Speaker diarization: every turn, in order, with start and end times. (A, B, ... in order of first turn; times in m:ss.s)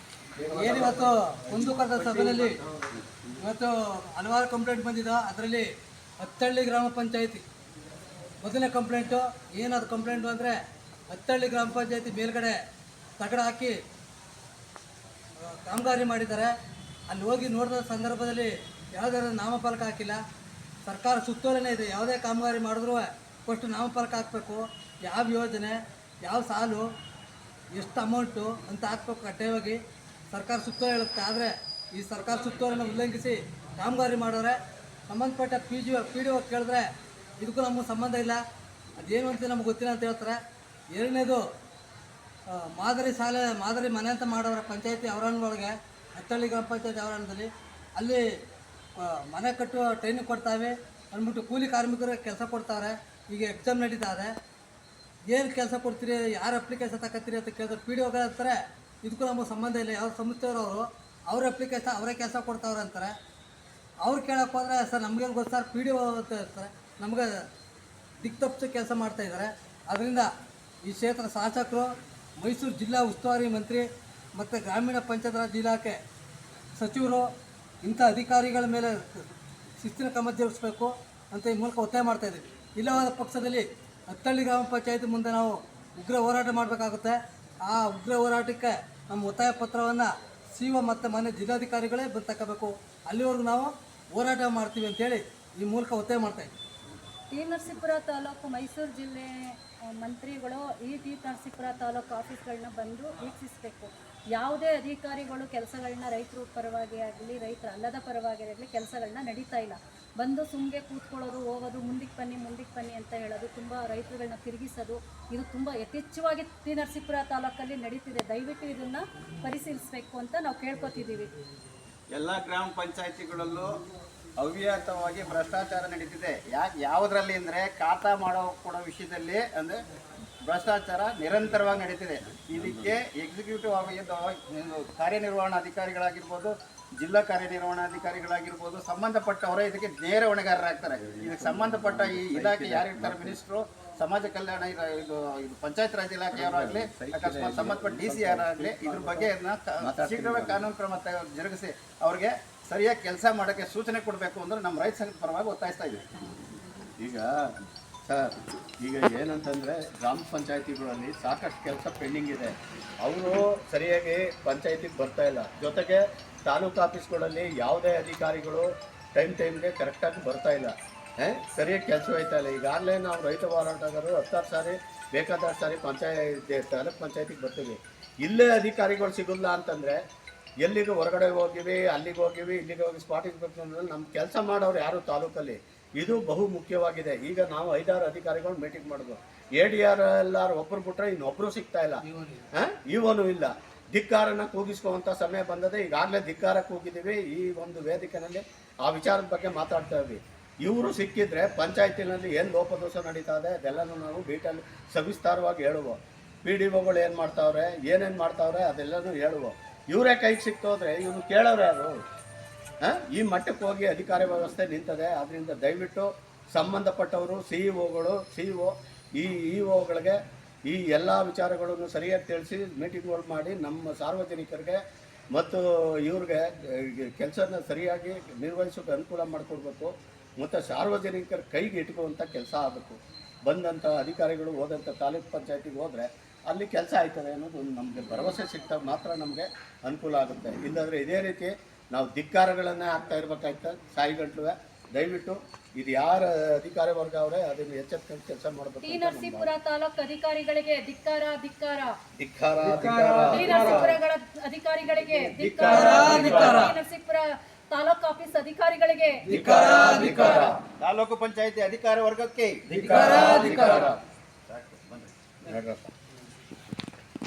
0:00.5-0:02.6 A
0:00.6-0:01.0 B
0:01.9-0:03.2 B
0:03.4-0:07.4 A
0:08.4-0:12.6 A
0:13.2-0:13.8 A
0:15.4-0:16.5 A
0:17.1-0:20.2 A
0:20.8-0:26.9 A
0:27.7-0:38.4 A
0:39.0-0:40.4 A
0:40.9-0:41.4 A
0:42.5-0:48.3 A
0:49.0-0:54.3 A
0:55.3-1:03.1 A
1:04.0-1:07.4 A
1:08.2-1:10.3 A
1:10.8-1:16.0 A
1:16.8-1:17.3 A
1:17.8-1:36.5 A
1:37.3-2:01.3 C
2:02.1-2:03.7 D
2:04.4-2:09.8 D
2:10.4-2:36.1 D
2:21.1-2:23.4 B
2:26.3-2:30.7 B
2:37.0-2:37.5 B
2:38.1-3:00.0 B
3:00.6-3:12.0 B
3:12.0-3:12.5 A
3:12.5-3:31.9 B
3:32.8-3:44.8 B
3:45.3-4:09.5 B
4:08.8-4:11.9 C
4:12.2-4:14.0 B
4:12.7-4:13.8 A
4:13.3-4:19.3 C
4:15.2-4:16.7 B
4:15.6-4:16.7 A
4:19.2-4:20.4 A
4:19.3-4:20.6 B
4:20.1-4:20.4 C
4:20.8-4:23.6 D
4:22.7-4:24.0 B
4:22.7-4:23.9 A
4:24.5-4:24.8 B
4:25.4-4:25.9 B